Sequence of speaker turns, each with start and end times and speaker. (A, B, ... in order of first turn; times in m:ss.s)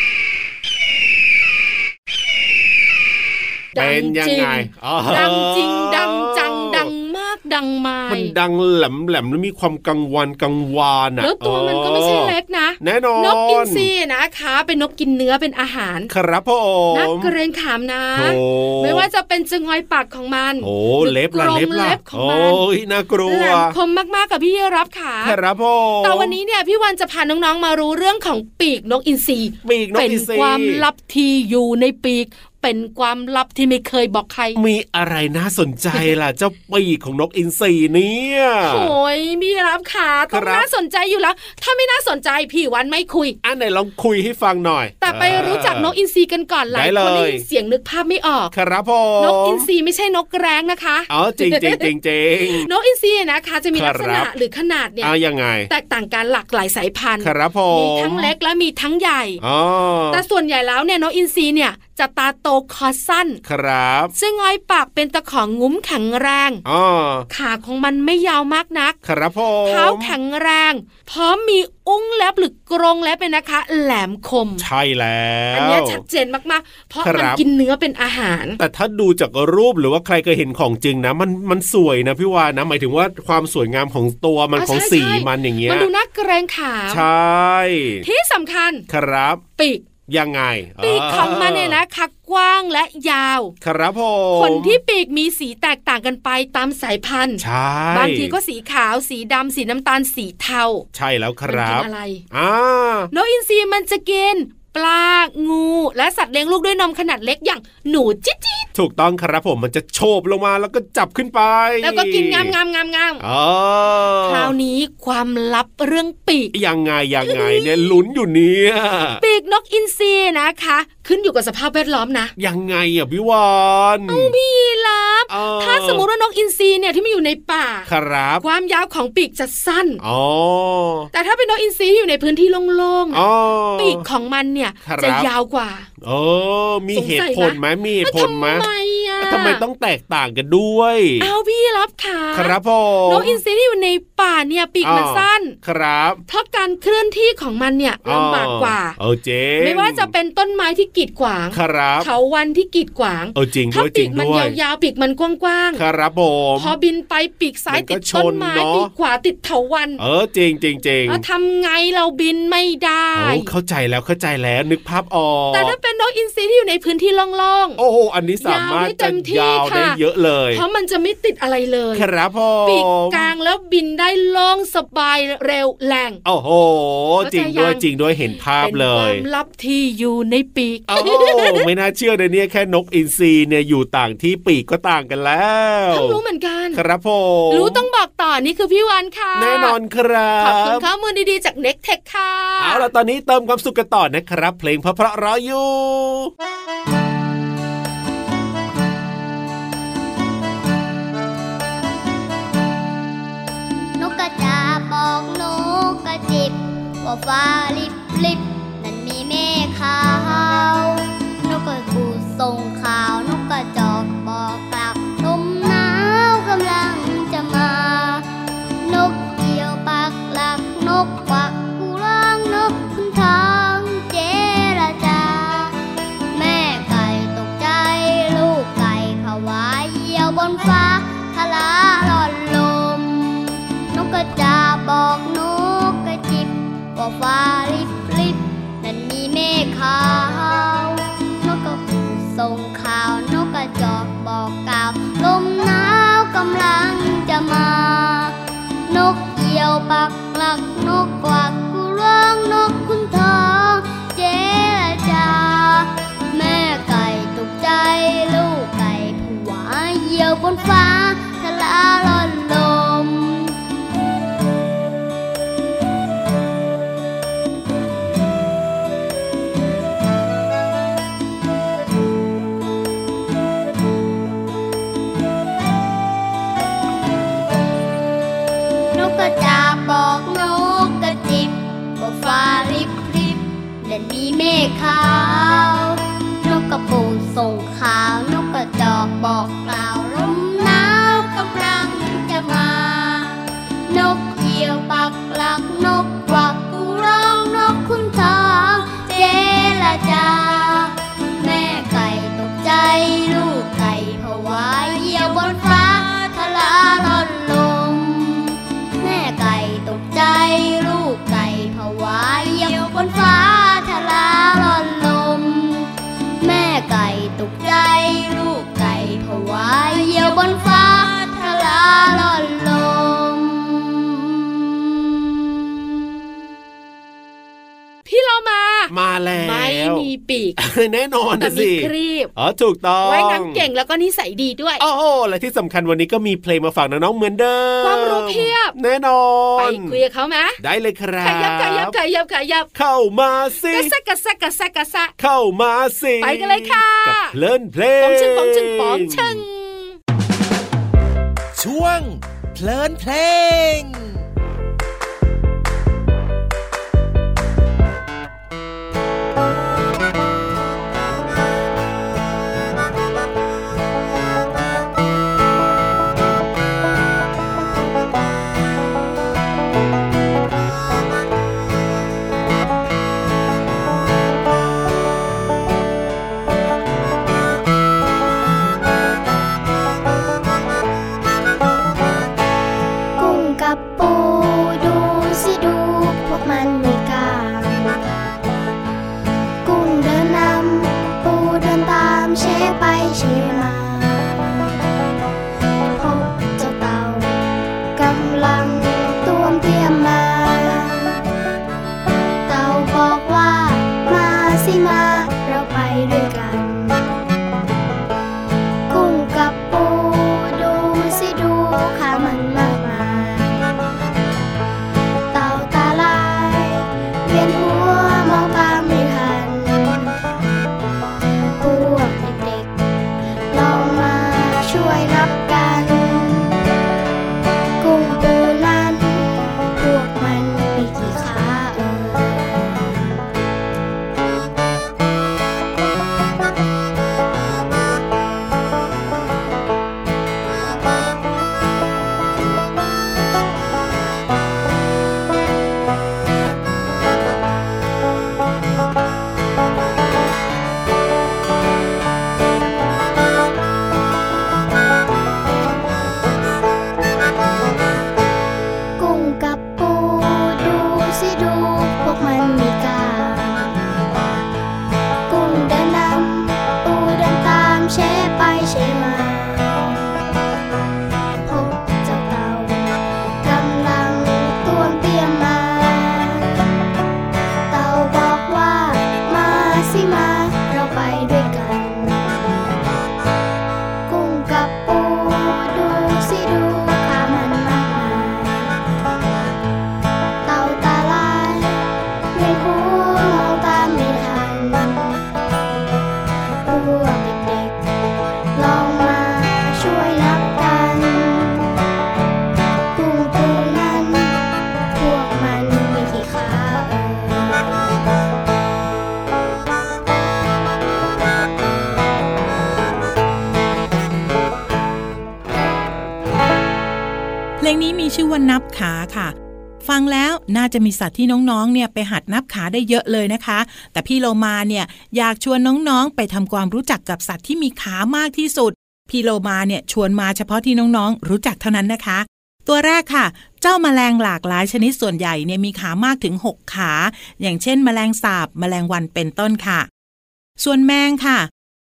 0:03.8-0:08.3 A
0:03.8-0:06.9 B
0:08.1-0:13.9 B
0:11.2-0:16.1 A
0:16.1-0:17.3 B
0:16.9-0:22.6 A
0:18.1-0:19.1 B
0:20.6-0:23.7 B
0:23.3-0:25.4 A
0:25.2-0:26.4 B
0:26.0-0:34.6 A
0:29.6-0:30.8 B
0:34.6-0:38.9 B
0:38.6-0:43.4 A
0:40.3-0:40.7 B
0:43.4-0:45.9 B
0:45.0-0:48.5 A
0:46.7-0:47.4 B
0:48.5-0:49.7 B
0:49.2-0:51.9 A
0:51.1-0:52.7 B
0:52.4-0:55.1 A
0:53.7-0:54.3 B
0:55.0-0:55.7 B
0:55.7-0:59.4 A
0:57.2-0:58.3 B
0:59.4-1:00.2 B
1:00.1-1:03.4 A
1:03.4-1:04.1 B
1:04.2-1:06.6 A
1:06.6-1:07.3 B
1:07.3-1:09.0 A
1:09.0-1:10.2 B
1:09.7-1:14.6 A
1:14.6-1:16.0 B
1:15.5-1:18.6 A
1:17.0-1:17.4 B
1:18.6-1:25.9 B
1:24.6-1:27.1 A
1:26.9-1:28.0 B
1:28.0-1:28.9 A
1:28.9-1:29.4 B
1:29.6-1:29.9 A
1:30.1-1:31.8 B
1:30.8-1:33.6 A
1:33.6-1:34.8 B
1:34.3-1:40.8 A
1:37.4-1:38.4 B
1:40.9-1:43.1 B
1:41.5-1:42.2 A
1:43.1-1:48.7 A
1:48.8-1:52.5 B
1:51.8-1:53.2 A
1:53.2-1:54.5 B
1:54.2-1:56.5 A
1:56.5-1:59.2 B
1:57.2-1:58.0 A
1:59.2-2:02.3 A
2:02.4-2:04.3 B
2:04.1-2:07.9 A
2:05.3-2:06.1 B
2:07.9-2:08.4 B
2:08.4-2:10.0 A
2:10.0-2:11.1 B
2:11.1-2:13.2 A
2:13.1-2:14.0 B
2:13.8-2:15.9 A
2:14.8-2:15.3 B
2:16.0-2:18.7 B
2:16.9-2:19.6 A
2:19.2-2:21.3 B
2:21.2-2:25.6 A
2:22.3-2:23.4 B
2:24.8-2:26.2 B
2:26.3-2:29.0 A
2:28.0-2:30.1 B
2:29.6-2:35.8 A
2:31.5-2:32.1 B
2:33.4-2:34.6 B
2:35.8-2:36.8 B
2:36.6-2:40.0 A
2:37.7-2:38.9 B
2:40.0-2:41.2 B
2:41.1-2:43.5 A
2:43.2-2:45.8 B
2:45.5-2:47.8 A
2:47.8-2:50.6 B
2:48.4-2:50.0 A
2:50.5-2:52.1 A
2:51.9-2:53.3 B
2:52.6-2:56.2 A
2:56.2-2:59.2 B
2:57.2-2:57.8 A
2:58.6-3:01.7 A
3:00.9-3:06.2 B
3:05.9-3:06.8 A
3:06.7-3:07.9 B
3:07.5-3:09.8 A
3:09.4-3:10.9 B
3:10.4-3:12.9 A
3:12.6-3:16.3 B
3:24.0-3:38.2 C
3:38.8-3:45.7 C
3:46.3-4:08.4 C
4:08.9-4:23.6 C
4:38.9-5:24.8 C
5:28.1-5:30.6 A
5:28.9-5:33.6 B
5:31.4-5:32.3 A
5:33.0-5:34.8 A
5:34.8-5:40.0 B
5:37.8-5:38.7 A
5:39.6-5:40.6 A
5:40.6-5:41.9 B
5:41.2-5:42.7 A
5:42.8-5:43.9 B
5:43.7-5:45.1 A
5:45.2-5:49.4 B
5:46.2-5:47.4 A
5:48.0-5:50.0 A
5:51.6-5:54.2 D
6:23.2-6:28.0 E
6:29.6-6:34.3 E
6:36.0-6:37.4 E
6:38.0-6:41.2 E
6:42.5-6:47.1 E
6:48.9-6:53.6 E
6:55.3-7:00.1 E
7:01.6-7:02.7 E
7:03.5-7:06.6 E
7:07.8-7:12.5 E
7:39.0-7:43.7 E
7:45.3-7:49.7 E
7:51.5-7:56.4 E
7:57.7-8:02.4 E
8:04.1-8:08.7 E
8:10.5-8:11.8 E
8:12.4-8:15.1 E
8:16.7-8:17.8 E
8:18.6-8:21.7 E
8:23.0-8:24.4 E
8:25.0-8:27.7 E
8:37.6-8:59.9 F
9:00.6-9:01.5 F